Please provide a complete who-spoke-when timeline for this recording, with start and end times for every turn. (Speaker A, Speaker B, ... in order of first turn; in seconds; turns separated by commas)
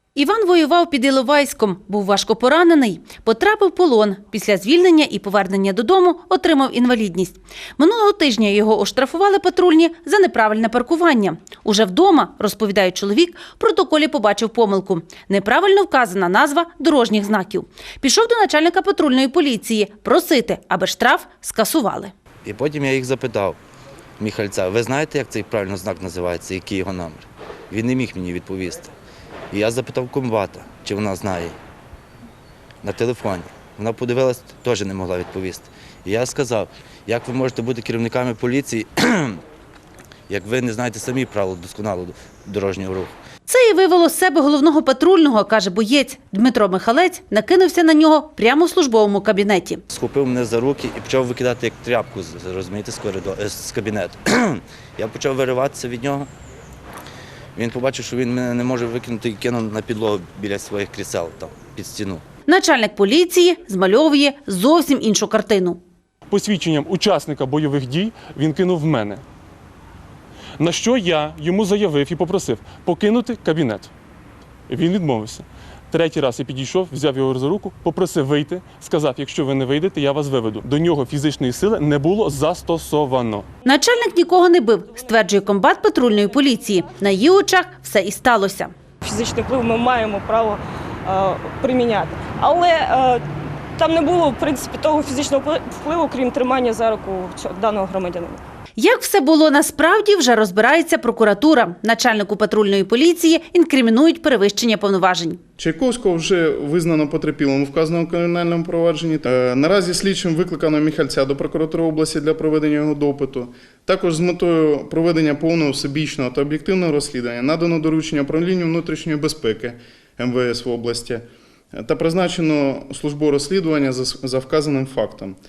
Speaker A: 0.2-22.1, Speaker B: 22.4-23.6, Speaker B: 24.2-28.9, Speaker B: 29.5-31.6, Speaker B: 32.8-39.4, Speaker B: 40.3-43.1, Speaker A: 43.5-49.8, Speaker B: 49.9-56.3, Speaker B: 57.5-62.2, Speaker A: 62.5-65.8, Speaker C: 66.3-69.2, Speaker C: 70.6-73.9, Speaker C: 74.7-83.5, Speaker A: 83.7-88.7, Speaker D: 89.0-93.2, Speaker D: 93.8-98.4, Speaker A: 98.8-105.4, Speaker E: 105.6-125.4